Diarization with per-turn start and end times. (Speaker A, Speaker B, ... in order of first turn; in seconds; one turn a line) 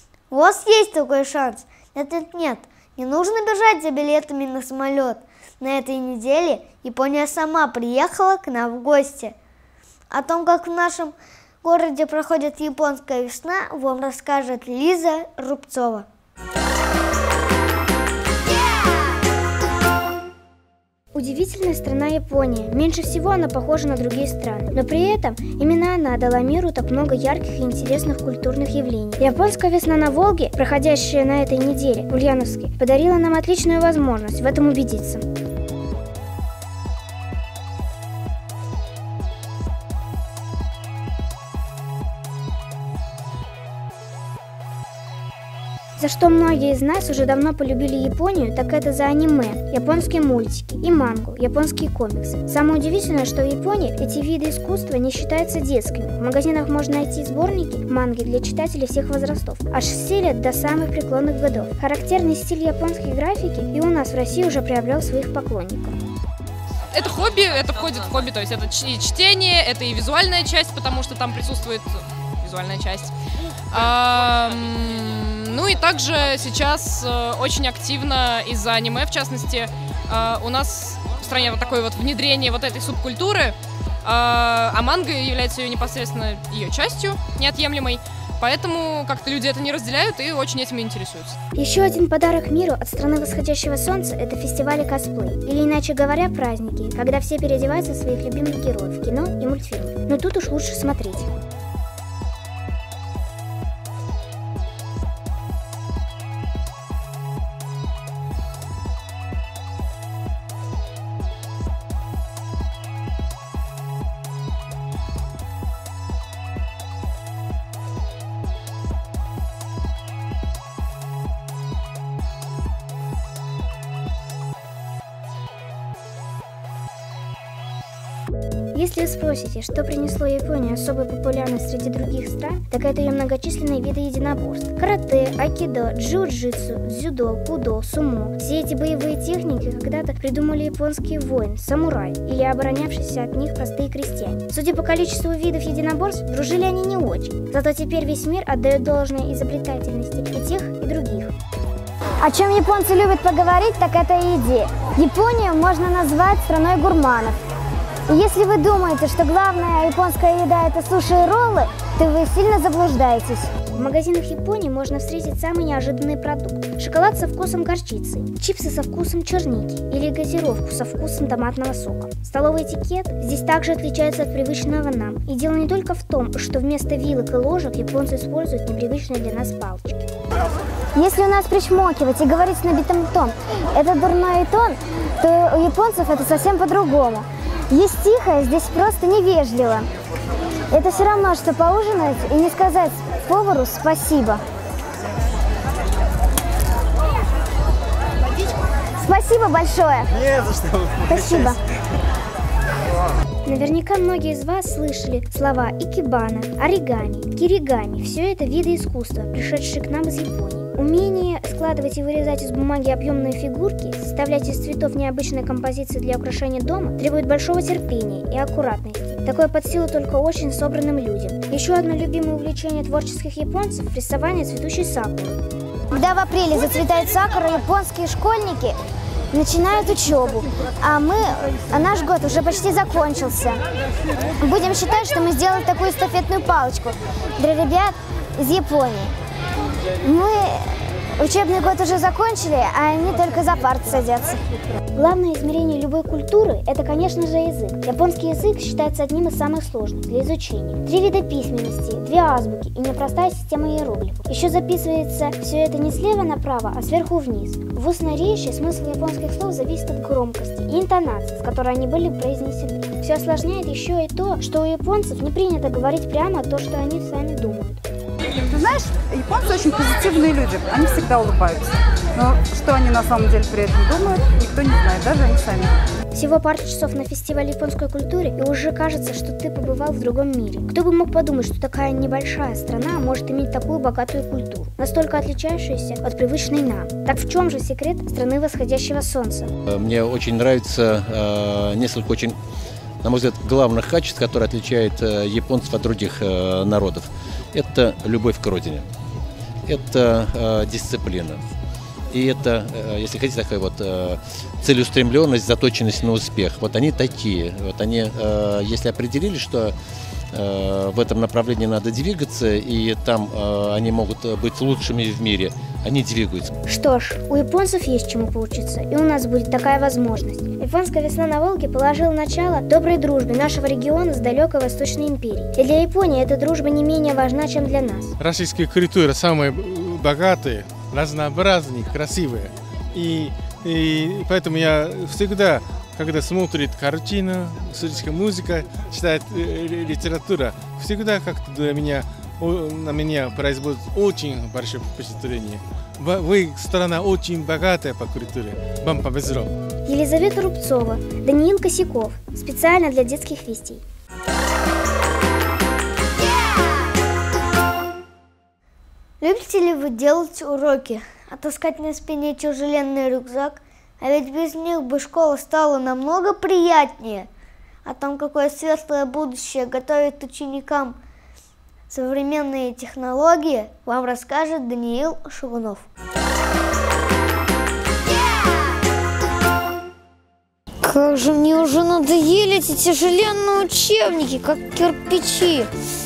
Speaker A: 0.3-9.3
Speaker A: 10.1-16.1
Speaker B: 21.1-35.2
Speaker B: 46.0-66.0
Speaker C: 66.9-73.1
Speaker C: 73.7-91.4
Speaker B: 91.6-101.3
Speaker B: 128.7-151.3
Speaker D: 152.2-157.4
Speaker D: 158.1-163.5
Speaker B: 163.7-180.0
Speaker D: 181.0-189.8
Speaker D: 190.7-194.4
Speaker D: 199.0-200.1
Speaker D: 201.1-201.6
Speaker B: 203.4-225.4
Speaker D: 225.9-228.8
Speaker D: 229.3-233.6
Speaker D: 234.4-239.1
Speaker D: 240.0-244.4
Speaker B: 244.9-267.8
Speaker E: 268.5-275.7
Speaker B: 276.1-289.5
Speaker F: 289.7-292.4
Speaker F: 293.0-298.9
Speaker F: 299.7-301.4
Speaker F: 302.1-309.7
Speaker F: 310.3-316.5
Speaker B: 316.7-328.1
Speaker G: 328.2-349.5
Speaker B: 349.9-353.8
Speaker A: 359.2-367.3
Speaker A: 367.9-371.0
Speaker A: 371.9-375.9
Speaker H: 382.2-385.6